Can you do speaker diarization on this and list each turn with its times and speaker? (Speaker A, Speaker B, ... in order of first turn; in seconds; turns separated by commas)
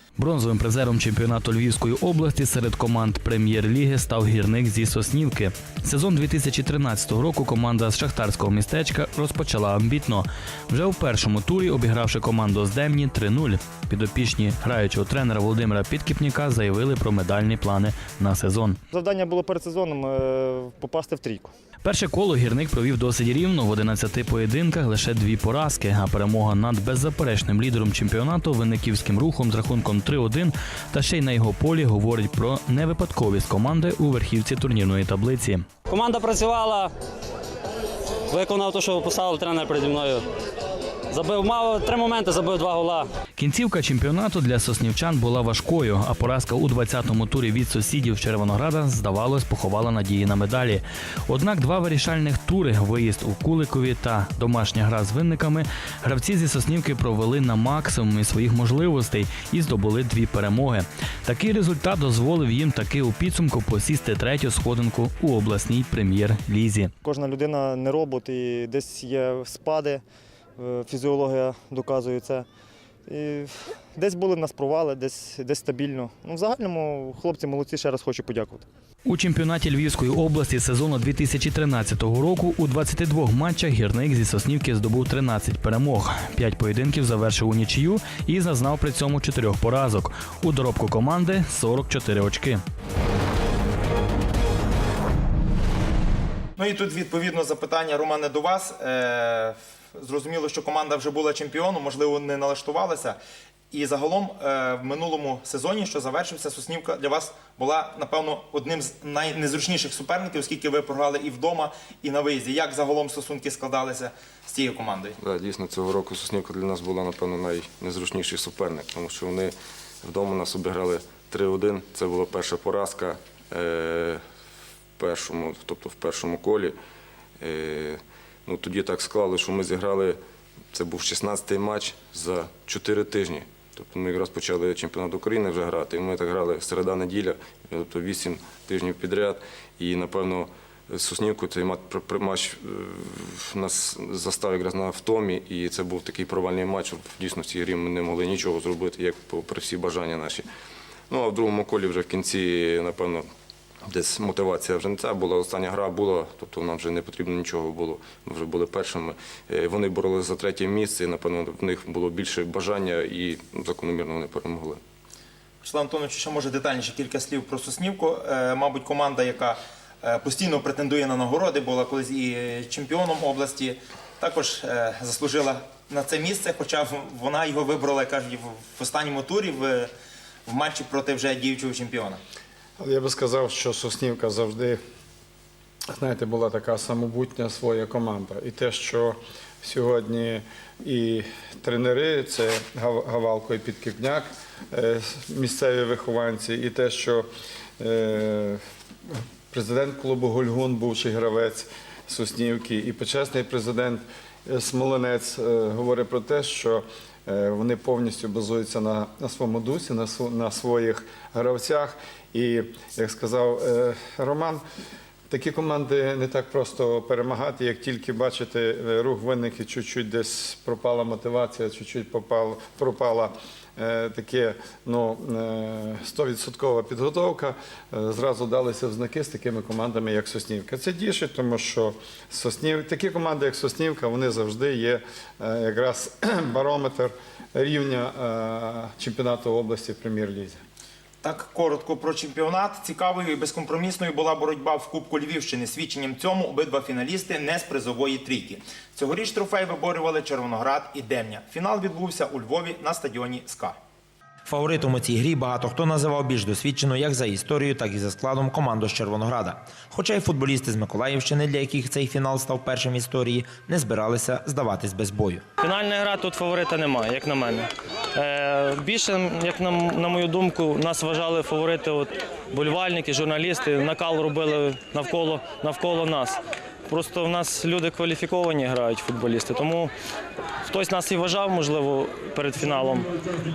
Speaker A: 0.2-18.8, Speaker B: 18.9-21.5, Speaker A: 21.8-35.7, Speaker C: 35.9-36.9, Speaker C: 38.3-40.3, Speaker C: 41.1-43.1, Speaker A: 43.4-66.9, Speaker B: 67.0-70.0, Speaker B: 70.6-72.5, Speaker B: 73.1-78.7, Speaker A: 79.0-92.6, Speaker D: 96.6-103.2, Speaker D: 103.7-115.2, Speaker E: 115.2-124.2, Speaker E: 125.0-126.7, Speaker E: 127.4-130.2, Speaker E: 130.7-150.4, Speaker E: 151.1-153.3, Speaker E: 153.8-164.8, Speaker D: 165.6-179.9, Speaker D: 180.5-182.2, Speaker F: 182.8-184.8, Speaker F: 185.9-197.3, Speaker F: 197.8-214.6, Speaker F: 215.3-240.6, Speaker D: 241.2-253.8, Speaker G: 254.4-265.4, Speaker H: 265.6-279.9, Speaker H: 280.6-283.1